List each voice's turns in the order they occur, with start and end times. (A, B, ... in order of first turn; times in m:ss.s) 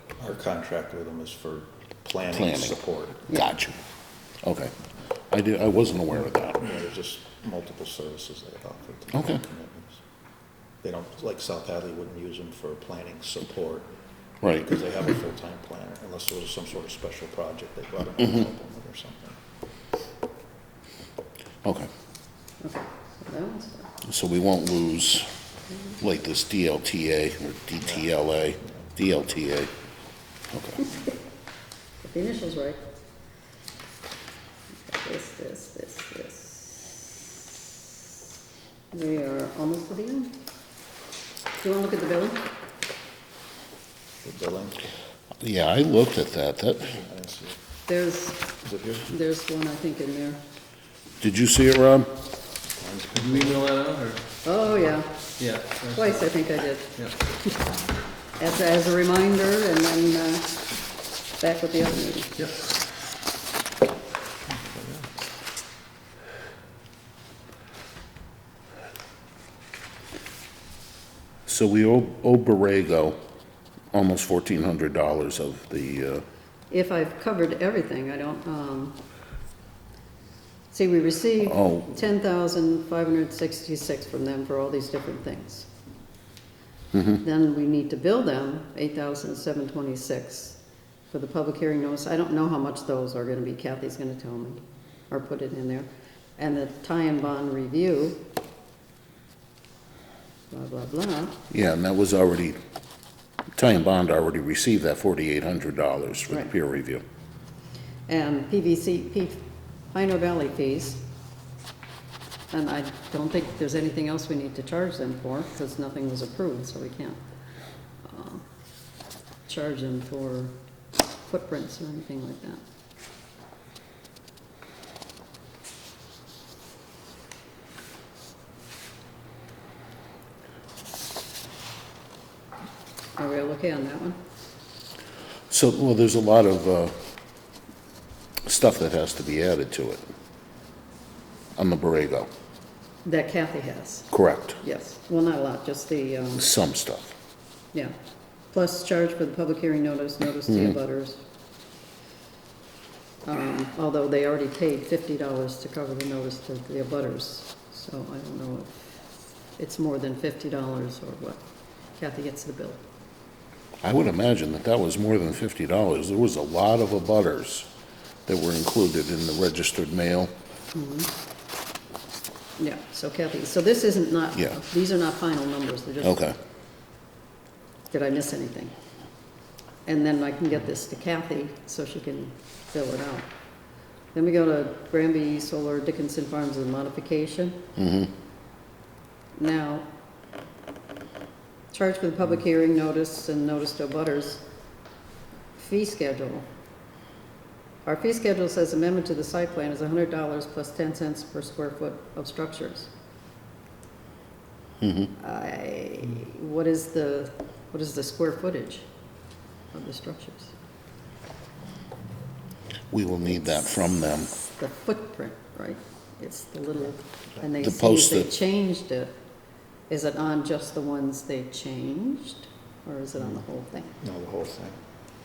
0:00.2-0:03.4 A
0:02.3-0:03.8 B
0:04.4-0:04.7 B
0:05.3-0:06.6 B
0:06.6-0:10.0 A
0:09.1-0:09.4 B
0:10.8-0:13.9 A
0:14.4-0:14.7 B
0:14.4-0:19.4 A
0:21.6-0:21.9 B
0:22.6-0:24.0 C
0:24.0-0:25.3 B
0:26.0-0:29.7 B
0:30.5-0:30.8 B
0:32.0-0:32.8 C
0:34.9-0:37.1 C
0:38.9-0:40.4 C
0:41.6-0:42.5 C
0:44.2-0:44.9 A
0:45.4-0:47.0 B
0:47.0-0:47.6 A
0:47.9-0:50.4 C
0:48.6-0:49.1 A
0:51.2-0:52.1 B
0:52.8-0:53.8 A
0:53.1-0:54.3 D
0:54.4-0:55.3 C
0:55.4-0:56.2 D
0:55.9-0:57.5 C
0:58.4-1:00.6 C
1:01.4-1:02.5 C
1:04.5-1:05.1 A
1:11.5-1:13.2 B
1:13.9-1:16.2 B
1:16.7-1:19.0 C
1:20.7-1:25.7 C
1:21.5-1:21.9 B
1:26.9-1:27.2 B
1:27.2-1:30.6 C
1:31.1-1:38.3 C
1:40.5-1:41.4 C
1:41.5-1:42.6 B
1:43.6-1:47.0 B
1:48.1-1:51.0 C
1:52.5-1:57.2 C
1:58.0-1:58.4 C
1:59.5-2:00.6 C
2:01.3-2:02.6 C
2:13.2-2:14.2 C
2:15.5-2:17.0 B
2:18.5-2:20.0 B
2:21.6-2:22.3 B
2:23.0-2:26.5 C
2:24.1-2:24.6 B
2:26.4-2:27.2 B
2:28.5-2:31.2 C
2:33.3-2:38.9 C
2:39.6-2:41.4 C
2:42.0-2:42.8 C
2:43.8-2:47.7 B
2:48.3-2:50.3 B
2:50.7-2:51.1 C
2:52.6-2:56.2 C
2:56.0-2:56.4 B
2:57.9-2:58.7 C
2:59.9-3:03.3 C
3:04.1-3:07.7 C
3:07.8-3:08.1 B
3:09.4-3:09.9 C
3:11.7-3:14.4 C
3:15.6-3:16.5 C
3:17.8-3:22.9 C
3:24.8-3:25.1 B
3:25.2-3:28.9 C
3:29.7-3:30.5 C
3:32.9-3:34.3 B
3:34.3-3:39.1 C
3:37.6-3:38.3 B
3:39.9-3:44.0 C
3:44.0-3:44.8 A